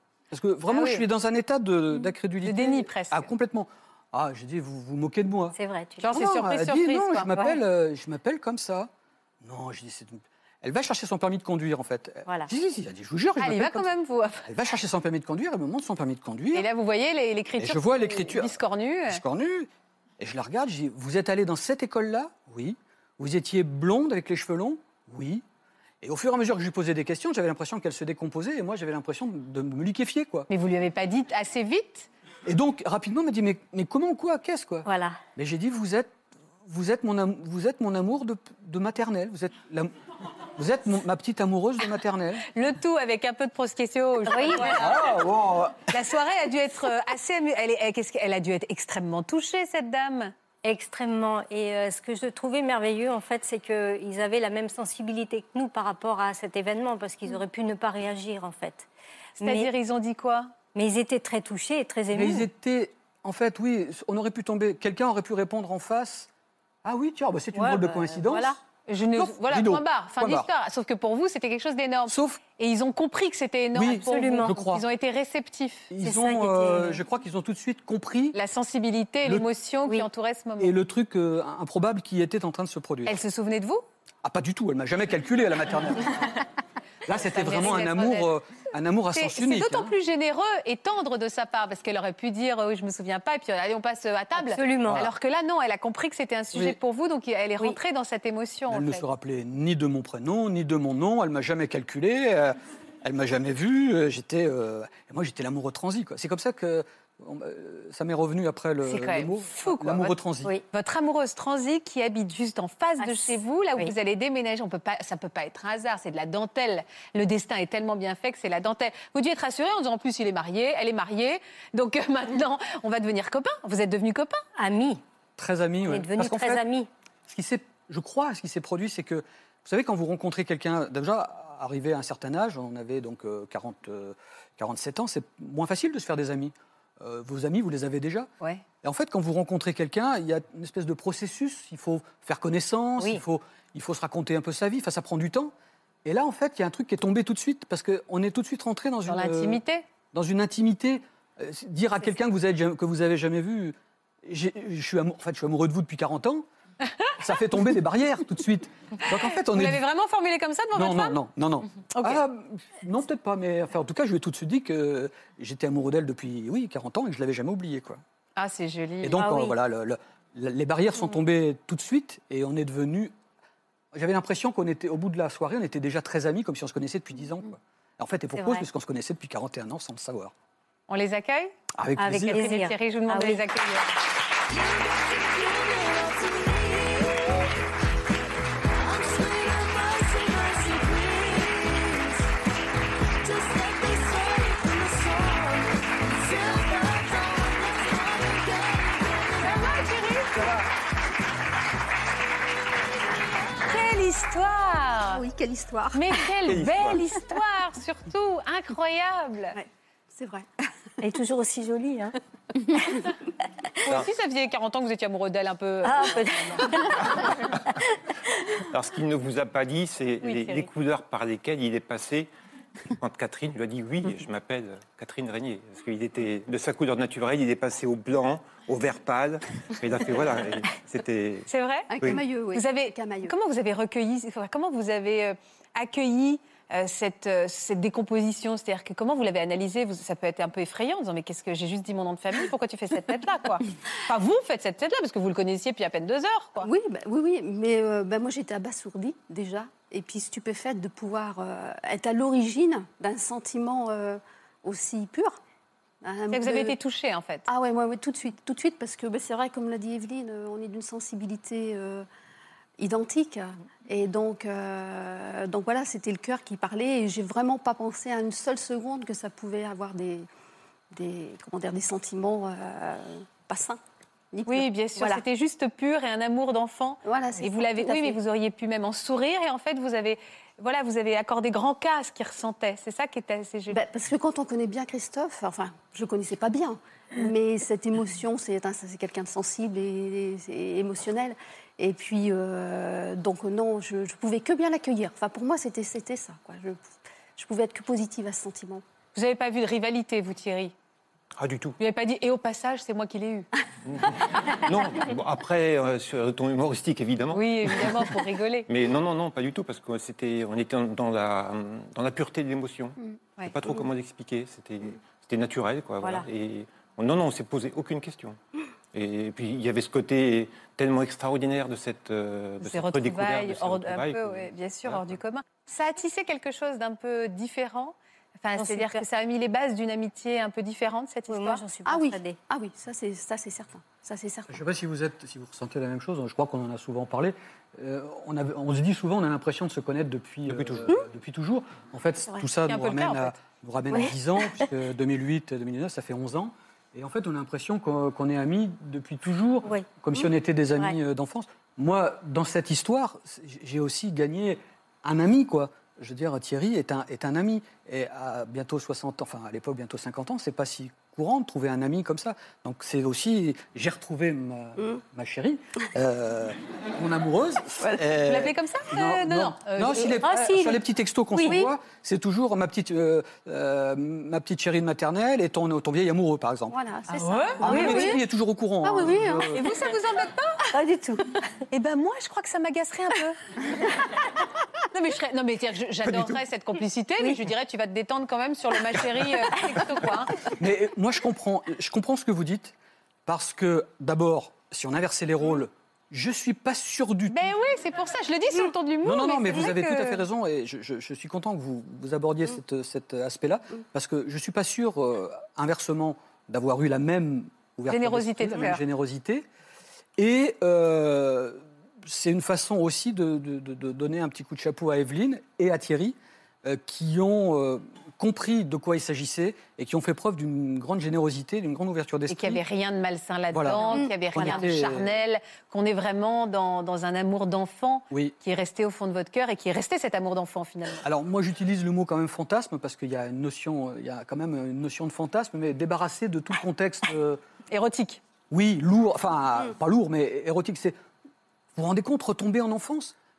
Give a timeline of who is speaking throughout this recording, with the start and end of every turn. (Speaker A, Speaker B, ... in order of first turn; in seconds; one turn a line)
Speaker A: 0.3-5.6
Speaker B: 0.7-1.0
Speaker B: 2.4-3.3
Speaker C: 5.5-6.1
Speaker B: 6.0-7.5
Speaker A: 6.1-8.9
Speaker A: 9.4-13.9
Speaker B: 13.4-14.5
Speaker A: 14.4-16.7
Speaker B: 16.5-19.2
Speaker A: 17.6-25.4
Speaker A: 26.0-30.5
Speaker B: 30.5-32.1
Speaker A: 32.5-39.9
Speaker C: 34.9-35.2
Speaker A: 40.5-42.5
Speaker B: 42.5-44.9
Speaker C: 44.3-45.2
Speaker A: 44.6-45.9
Speaker B: 45.9-50.3
Speaker C: 50.6-58.9
Speaker B: 59.4-60.5
Speaker C: 59.4-59.7
Speaker C: 60.7-62.5
Speaker A: 62.1-66.3
Speaker A: 66.8-68.6
Speaker C: 67.5-68.6
Speaker B: 68.9-75.9
Speaker A: 69.1-70.5
Speaker A: 72.1-72.4
Speaker A: 73.7-74.8
Speaker C: 74.0-74.5
Speaker A: 75.9-78.4
Speaker C: 76.0-77.0
Speaker B: 78.3-80.8
Speaker A: 80.6-83.2
Speaker B: 83.1-83.8
Speaker A: 84.2-86.5
Speaker A: 87.1-89.9
Speaker B: 87.2-88.3
Speaker B: 89.1-99.0
Speaker C: 94.3-95.1
Speaker A: 98.7-110.5
Speaker B: 108.8-110.2
Speaker B: 110.7-124.4
Speaker C: 113.0-113.9
Speaker C: 124.6-125.0
Speaker A: 125.4-126.6
Speaker C: 125.8-126.9
Speaker A: 127.3-138.3
Speaker A: 138.8-145.5
Speaker A: 146.1-149.6
Speaker B: 149.1-149.8
Speaker A: 150.1-156.5
Speaker A: 157.2-159.8
Speaker B: 159.1-161.2
Speaker A: 160.7-168.0
Speaker B: 161.9-162.2
Speaker B: 168.4-169.2
Speaker A: 169.0-173.1
Speaker C: 169.2-169.6
Speaker A: 173.9-180.3
Speaker C: 178.4-178.7
Speaker B: 180.9-181.5
Speaker A: 181.8-182.4
Speaker C: 182.0-183.4
Speaker B: 182.1-183.9
Speaker D: 188.8-191.5
Speaker D: 193.3-199.4
Speaker B: 199.4-200.6
Speaker B: 203.6-205.2
Speaker D: 205.1-206.2
Speaker B: 205.9-209.6
Speaker E: 206.4-207.1
Speaker D: 210.1-210.5
Speaker C: 211.0-212.2
Speaker B: 213.8-216.7
Speaker C: 215.8-217.3
Speaker E: 218.7-222.3
Speaker B: 220.2-220.7
Speaker E: 223.0-232.2
Speaker B: 231.5-246.7
Speaker D: 231.9-233.3
Speaker D: 246.6-255.4
Speaker D: 256.0-256.8
Speaker B: 256.3-257.5
Speaker D: 257.5-262.1
Speaker D: 262.8-270.3
Speaker D: 270.9-273.8
Speaker D: 274.3-275.2
Speaker B: 274.5-283.8
Speaker D: 277.1-278.2
Speaker D: 283.7-298.8
Speaker B: 299.1-300.7
Speaker E: 301.4-301.8
Speaker B: 301.8-303.5
Speaker E: 303.9-318.4
Speaker B: 307.3-308.7
Speaker E: 318.9-325.1
Speaker B: 322.6-331.6
Speaker C: 328.5-329.0
Speaker C: 331.3-332.4
Speaker D: 331.9-334.6
Speaker A: 334.5-376.8
Speaker E: 340.5-341.0
Speaker B: 342.7-343.4
Speaker B: 368.2-370.2
Speaker C: 370.2-370.8
Speaker C: 371.3-371.7
Speaker D: 376.7-378.2
Speaker B: 377.1-378.2
Speaker A: 377.6-379.7
Speaker D: 378.8-379.6
Speaker B: 379.5-380.6
Speaker C: 380.7-381.2
Speaker B: 381.7-383.4
Speaker B: 384.9-390.4
Speaker A: 390.5-392.8
Speaker A: 393.3-397.5
Speaker B: 397.3-400.2
Speaker A: 399.0-409.5
Speaker B: 407.9-408.8
Speaker A: 410.2-422.6
Speaker B: 422.3-431.1
Speaker A: 423.5-425.1
Speaker A: 431.0-437.4
Speaker B: 437.7-438.2
Speaker A: 438.5-441.0
Speaker A: 441.8-443.1